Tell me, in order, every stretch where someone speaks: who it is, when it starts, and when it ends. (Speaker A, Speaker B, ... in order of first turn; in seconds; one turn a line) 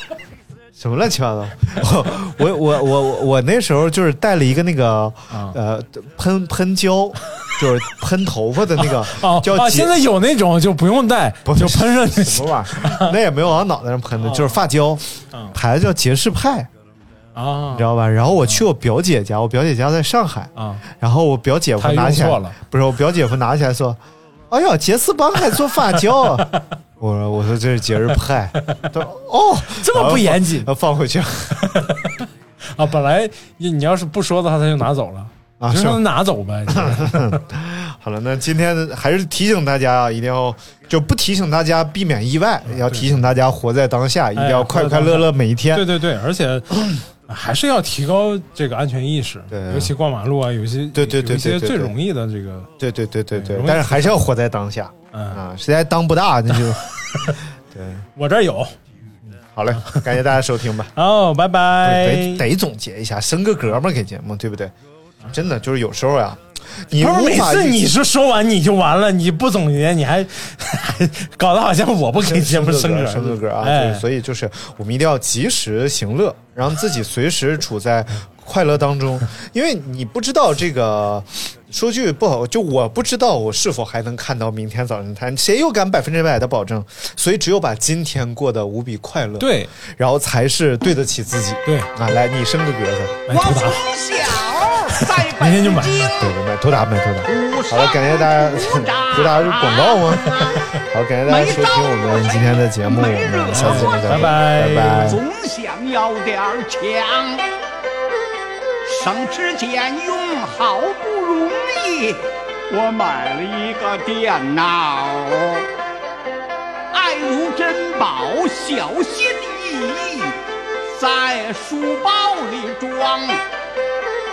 Speaker A: 0.8-10.0
Speaker B: 5.3-5.6
Speaker B: 8.8-13.1
Speaker A: 11.4-16.7
Speaker B: 14.2-14.6
Speaker B: 17.3-17.9
Speaker A: 17.7-31.8
Speaker B: 20.6-20.8
Speaker B: 21.8-22.6
Speaker B: 29.7-30.7
Speaker B: 31.6-37.4
Speaker A: 35.6-36.0
Speaker A: 36.7-45.9
Speaker B: 42.7-43.2
Speaker B: 44.4-52.7
Speaker A: 49.5-49.9
Speaker A: 50.9-51.9
Speaker A: 52.8-58.0
Speaker B: 53.3-54.2
Speaker B: 55.1-55.4
Speaker B: 56.5-57.4
Speaker B: 58.1-58.8
Speaker A: 59.2-60.9
Speaker B: 59.8-60.1
Speaker B: 60.9-62.5
Speaker A: 61.8-64.7
Speaker A: 65.3-67.8
Speaker B: 66.9-74.0
Speaker A: 72.1-93.3
Speaker B: 89.4-89.7
Speaker B: 91.7-91.9
Speaker B: 93.3-93.9
Speaker C: 93.3-96.3
Speaker B: 94.6-96.1
Speaker A: 96.1-105.2
Speaker C: 97.2-100.6
Speaker C: 101.2-104.3
Speaker B: 103.5-105.2
Speaker C: 105.0-107.5
Speaker C: 108.8-115.7
Speaker C: 116.9-123.4